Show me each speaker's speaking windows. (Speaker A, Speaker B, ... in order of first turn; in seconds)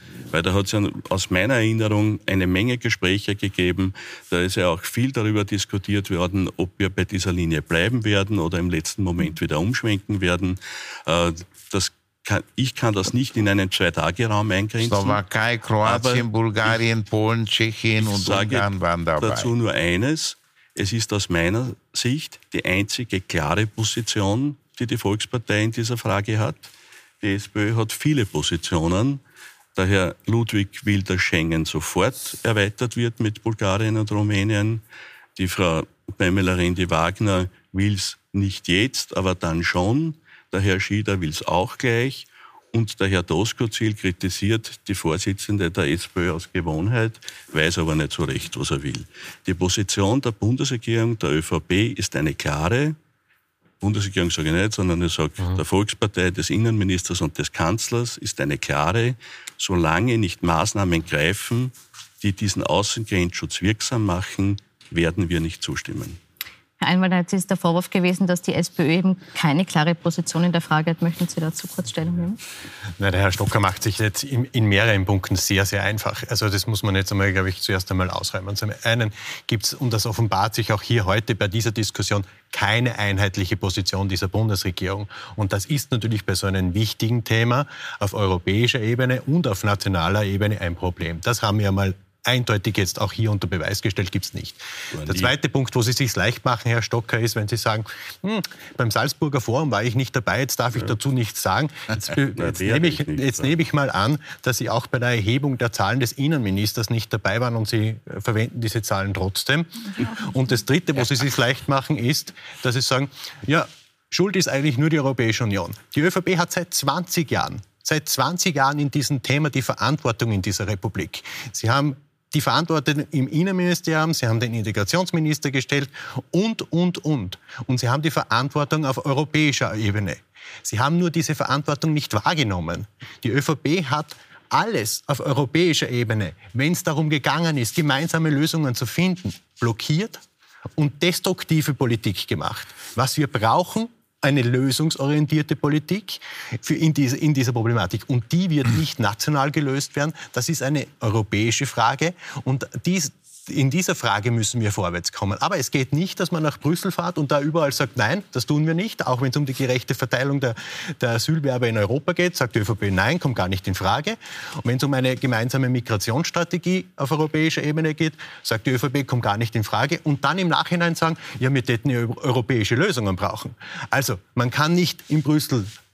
Speaker A: 0.3-15.2, 15.8-16.8, 18.0-29.2, 29.8-34.8, 35.4-53.0, 53.8-66.2, 94.9-95.3, 102.3-103.5
Speaker B: 14.8-19.5
Speaker C: 66.8-72.4
Speaker D: 73.0-140.2, 140.8-175.7